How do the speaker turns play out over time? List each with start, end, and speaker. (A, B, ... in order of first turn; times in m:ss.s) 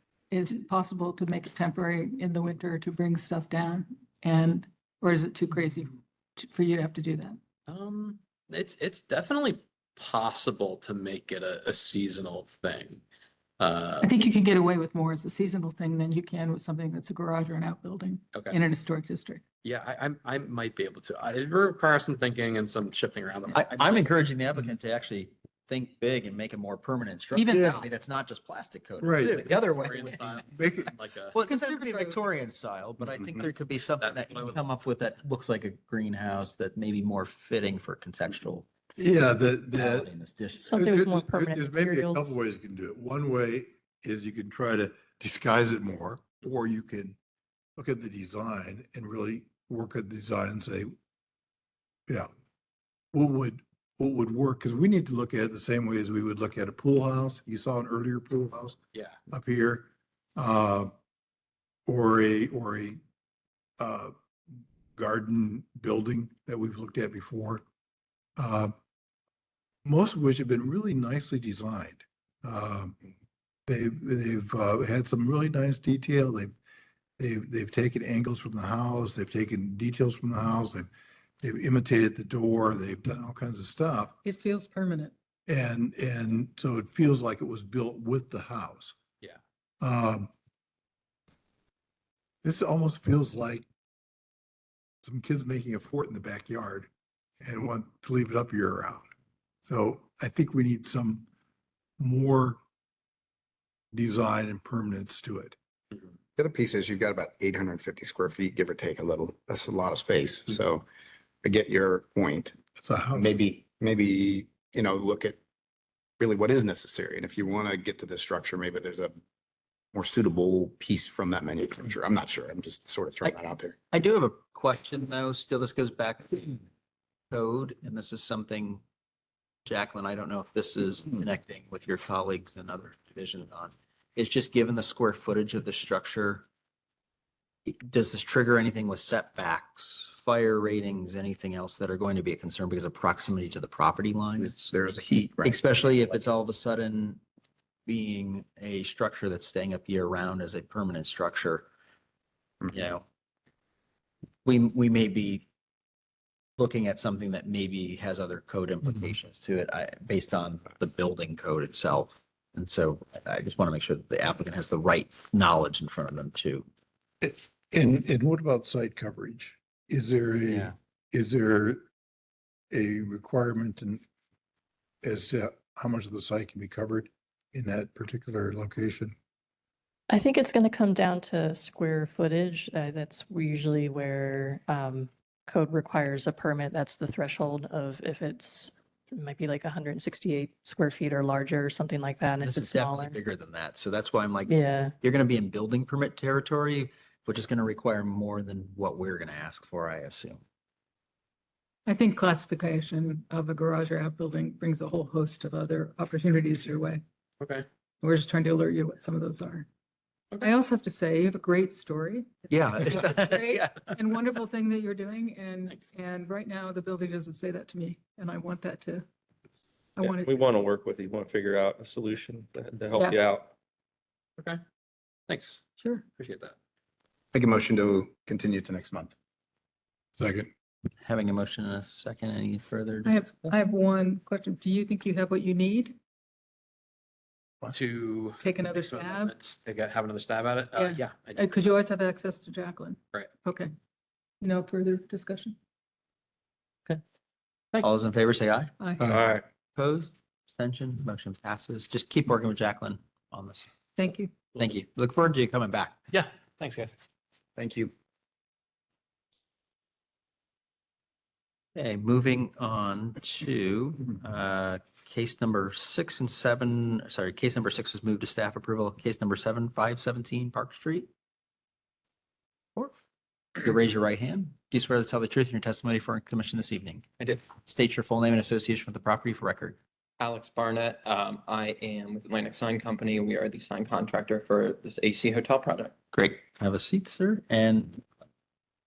0:00.3-0:07.4 A
0:07.7-0:13.0 B
0:13.6-0:14.1 B
0:14.0-0:19.4 A
0:18.3-0:18.6 B
0:19.6-0:24.1 B
0:23.5-0:30.4 C
0:27.3-0:27.8 A
0:29.0-0:29.4 D
0:29.2-0:31.4 B
0:30.5-0:30.9 D
0:31.3-0:38.7 C
0:31.5-0:32.2 A
0:34.0-0:34.5 B
0:39.0-0:40.1 D
0:39.7-0:40.7 C
0:40.6-0:42.4 E
0:40.7-0:47.2 D
0:47.8-0:50.9 D
0:53.1-0:58.8 D
0:59.3-1:00.9 D
1:01.9-1:03.0 D
1:03.8-1:04.1 D
1:05.0-1:07.6 D
1:08.4-1:08.7 D
1:09.8-1:13.0 D
1:13.7-1:16.5 D
1:17.2-1:20.9 D
1:21.4-1:24.2 D
1:24.2-1:25.1 A
1:25.5-1:29.0 D
1:29.8-1:30.3 D
1:32.4-1:33.6 D
1:35.0-1:36.9 D
1:37.4-1:39.1 D
1:39.6-1:41.3 D
1:42.0-1:42.6 D
1:43.9-1:45.6 D
1:46.4-1:50.8 F
1:51.4-1:52.6 F
1:52.8-1:53.3 D
1:53.2-1:55.4 F
1:56.2-1:59.2 F
1:59.9-2:03.8 F
2:03.9-2:06.6 C
2:07.3-2:08.8 C
2:09.7-2:16.4 C
2:17.7-2:24.7 C
2:24.4-2:25.6 F
2:25.4-2:27.2 C
2:27.9-2:31.7 C
2:32.7-2:33.0 C
2:34.4-2:35.5 C
2:36.6-2:46.7 C
2:47.2-2:51.8 D
2:50.5-2:50.7 C
2:52.7-2:54.0 D
2:55.0-2:59.2 D
3:00.1-3:13.2 E
3:12.4-3:20.4 C
3:14.5-3:14.9 E
3:21.9-3:27.0 A
3:28.0-3:29.7 A
3:30.4-3:39.1 A
3:32.5-3:33.9 C
3:40.0-3:40.3 A
3:40.0-3:43.5 G
3:45.3-3:45.6 B
3:45.8-3:46.0 A
3:46.2-3:46.6 B
3:47.3-3:49.1 F
3:50.2-3:50.5 D
3:51.0-3:53.2 C
3:53.0-3:56.0 A
3:57.6-4:01.5 B
3:58.4-3:59.3 A
4:00.8-4:03.7 A
4:04.4-4:05.6 A
4:07.8-4:08.7 C
4:08.8-4:09.1 A
4:09.0-4:09.3 D
4:09.1-4:09.4 G
4:09.8-4:13.7 C
4:14.0-4:14.4 A
4:14.6-4:16.0 C
4:16.1-4:16.9 B
4:17.6-4:17.9 F
4:21.8-4:31.1 C
4:33.6-4:39.8 C
4:40.2-4:45.9 H
4:46.1-4:48.0 C